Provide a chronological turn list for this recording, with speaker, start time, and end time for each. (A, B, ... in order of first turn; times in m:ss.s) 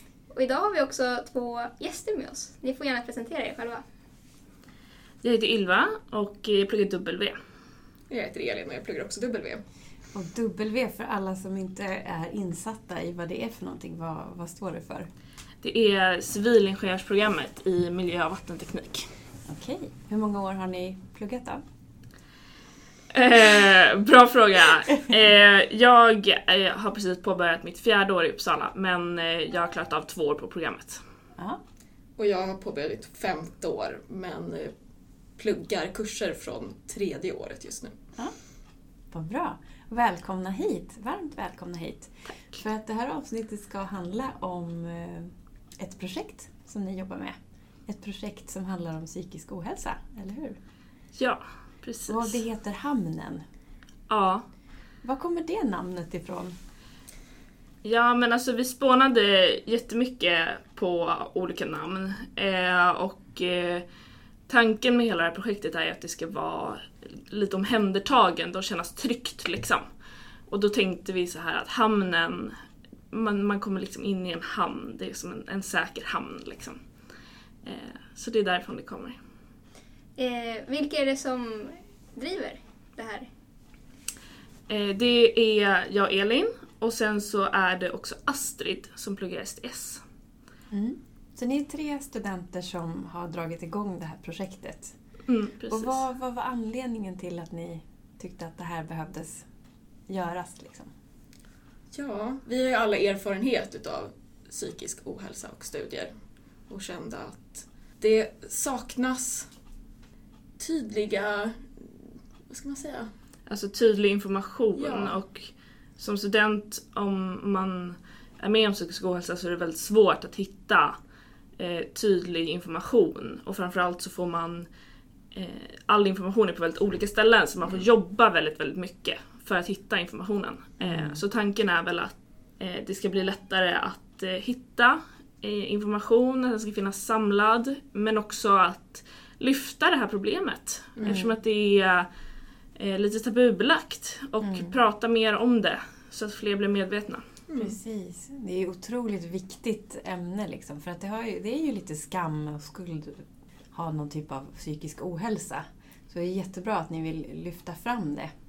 0:00.3-0:03.8 A
0:05.2-0:07.4 B
0:08.1-0:09.6 C
0:10.1-0:15.1 D
0:15.6-0:19.1 B
0:19.4-0:21.6 D
0:23.1-0:31.0 B
0:32.2-0:34.7 C
0:35.4-0:37.9 C
0:39.1-0:50.6 D
0:51.1-0:52.4 B
0:52.1-0:53.4 D
0:54.1-0:54.4 B
0:55.0-0:56.6 D
0:57.8-1:03.8 B
1:04.5-1:09.9 B
1:10.5-1:12.6 B
1:13.1-1:16.8 B
1:17.6-1:19.2 B
1:20.2-1:23.3 A
1:24.7-1:30.0 B
1:30.7-1:34.9 D
1:35.3-1:36.0 B
1:35.7-1:39.4 D
1:40.1-1:40.9 D
1:41.9-1:46.1 C
1:46.7-1:49.5 C
1:50.6-1:53.1 C
1:53.5-2:01.0 B
1:54.8-1:55.2 C
2:01.6-2:04.7 B
2:05.3-2:22.1 B
2:10.8-2:11.2 D
2:21.0-2:21.4 D
2:22.7-2:27.2 B
2:24.4-2:24.8 D
2:27.5-2:27.8 C
2:27.5-2:38.3 D